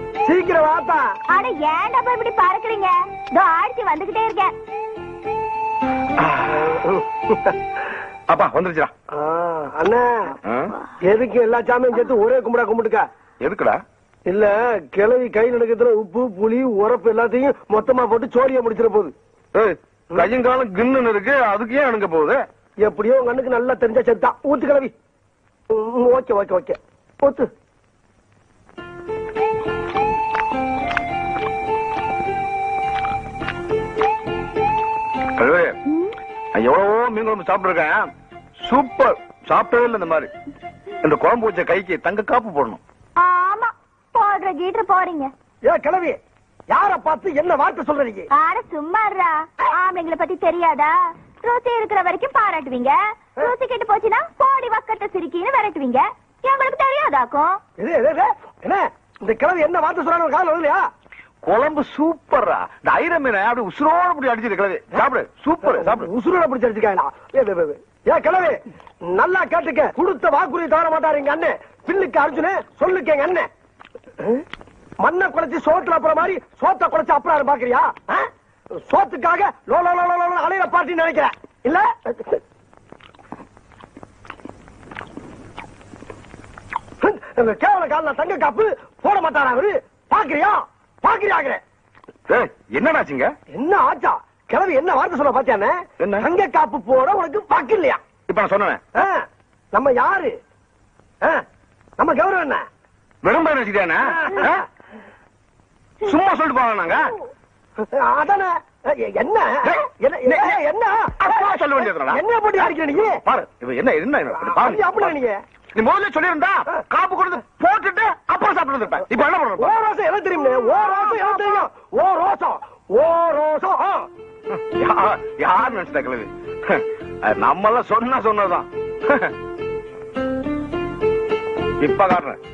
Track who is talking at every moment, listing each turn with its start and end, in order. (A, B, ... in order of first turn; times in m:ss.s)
0:00.2-0:01.1 A
0:01.3-0:04.5 B
0:06.2-0:06.6 C
0:06.5-0:07.6 A
0:08.3-0:08.9 C
0:09.1-0:10.4 A
0:10.4-0:10.7 C
0:11.0-0:13.0 A
0:13.4-0:13.8 C
0:14.3-0:19.1 A
0:19.6-0:22.4 C
0:22.8-0:24.9 A
0:25.7-0:27.5 A
0:35.4-0:35.8 C
0:36.5-0:38.1 C
0:38.6-0:40.3 C
0:41.0-0:42.8 C
0:43.2-0:45.3 B
0:45.6-0:46.2 A
0:46.7-0:48.3 A
0:48.3-0:57.6 B
0:57.8-1:00.9 A
1:01.4-1:06.1 C
1:05.6-1:13.5 A
1:15.0-1:18.3 A
1:18.8-1:22.4 A
1:27.0-1:31.6 A
1:32.3-1:33.3 C
1:33.5-1:38.0 A
1:36.0-1:36.3 C
1:38.3-1:38.8 C
1:39.0-1:40.4 A
1:42.0-1:42.6 A
1:43.2-1:44.6 C
1:44.2-1:44.6 A
1:46.0-1:47.1 C
1:47.8-1:53.2 A
1:49.6-1:50.6 C
1:51.2-1:55.1 C
1:54.3-1:55.4 A
1:55.8-1:59.8 C
1:59.6-2:04.1 A
2:04.5-2:09.3 C
2:11.8-2:12.4 C